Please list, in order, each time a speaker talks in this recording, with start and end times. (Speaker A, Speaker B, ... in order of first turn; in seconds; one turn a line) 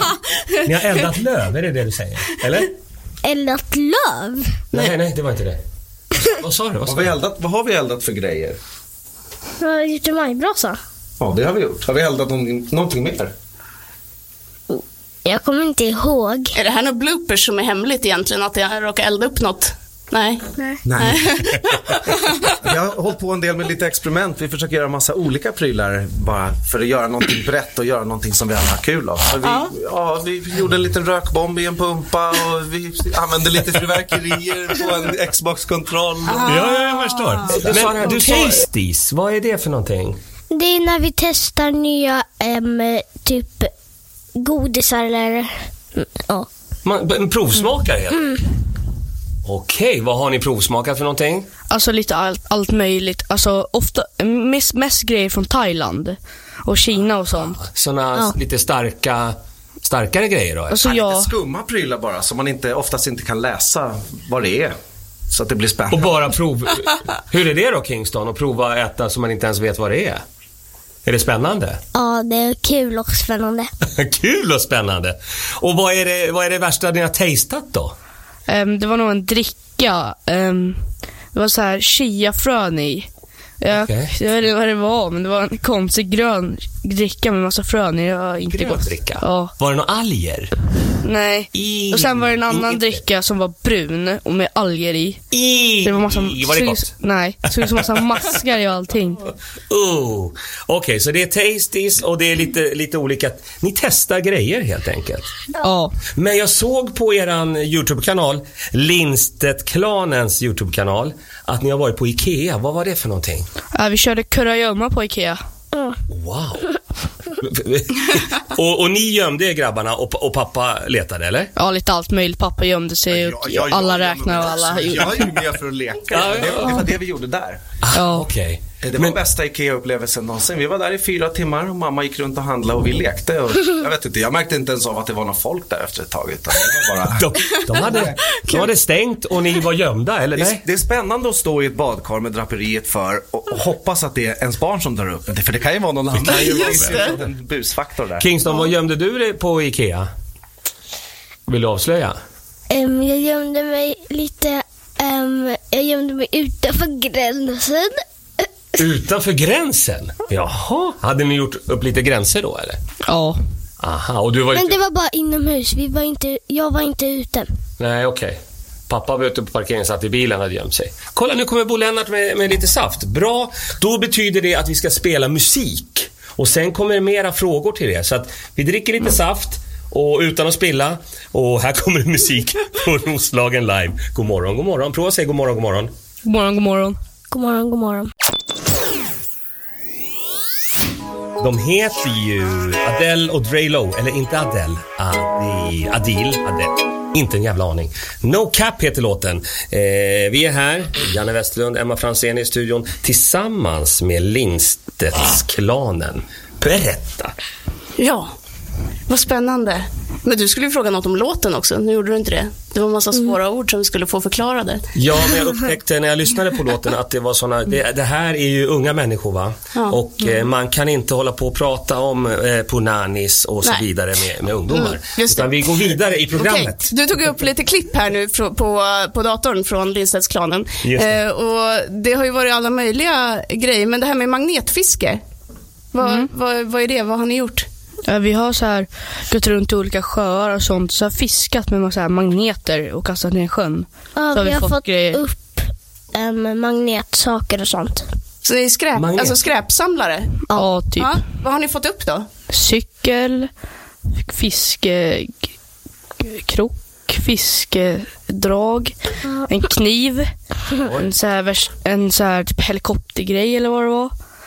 Speaker A: 0.6-2.7
Speaker B: 3.2-4.9
Speaker A: 4.7-5.6
Speaker A: 6.3-7.1
Speaker C: 6.8-8.6
Speaker B: 9.6-10.8
Speaker C: 11.2-13.3
Speaker B: 14.7-16.6
Speaker D: 16.5-22.5
Speaker C: 20.8-21.4
Speaker C: 22.5-36.7
Speaker D: 29.4-29.7
Speaker D: 36.2-38.6
Speaker A: 36.4-40.2
Speaker C: 37.5-38.1
Speaker B: 40.5-43.7
Speaker B: 44.4-46.5
Speaker A: 46.8-48.3
Speaker B: 48.1-48.4
Speaker A: 49.4-51.5
Speaker E: 51.7-57.6
Speaker A: 57.6-60.8
Speaker E: 60.7-61.3
Speaker C: 60.8-64.7
Speaker C: 65.3-66.1
Speaker A: 65.9-70.2
Speaker A: 71.0-71.8
Speaker B: 71.9-73.7
Speaker A: 73.8-77.9
Speaker E: 78.5-80.8
Speaker E: 81.3-83.1
Speaker E: 83.6-89.5
Speaker A: 83.7-84.1
Speaker A: 88.5-90.5
Speaker E: 91.0-95.2
Speaker A: 91.5-93.0
Speaker A: 95.3-96.9
Speaker E: 95.8-99.2
Speaker A: 99.7-105.3
Speaker E: 105.6-106.0
Speaker A: 106.1-113.5
Speaker E: 113.7-115.4
Speaker A: 116.1-116.7
Speaker A: 117.4-121.5
Speaker E: 121.5-125.2
Speaker C: 123.1-127.6
Speaker A: 126.1-126.9
Speaker A: 127.8-129.2
Speaker E: 127.9-128.3
Speaker C: 128.8-138.2
Speaker A: 137.1-140.6
Speaker D: 138.3-138.6
Speaker C: 140.3-148.3
Speaker D: 146.2-147.2
Speaker A: 148.2-150.1
Speaker A: 151.5-152.2
Speaker B: 152.7-158.0
Speaker A: 158.8-162.8
Speaker E: 163.1-163.4
Speaker A: 163.8-164.8
Speaker B: 164.5-167.5
Speaker A: 167.8-185.9
Speaker E: 186.2-187.0
Speaker B: 187.3-188.1
Speaker A: 191.4-207.3
Speaker D: 208.0-208.3
Speaker D: 209.1-214.9
Speaker A: 214.9-226.9
Speaker D: 224.7-225.8
Speaker D: 226.3-235.2
Speaker A: 230.8-231.2
Speaker D: 235.9-237.7
Speaker E: 236.0-236.3
Speaker E: 238.1-245.2
Speaker B: 244.2-248.1
Speaker D: 248.4-250.4
Speaker A: 248.9-249.4
Speaker E: 250.5-251.2
Speaker D: 250.9-252.3
Speaker E: 252.5-253.5
Speaker E: 254.2-255.5
Speaker E: 256.2-264.1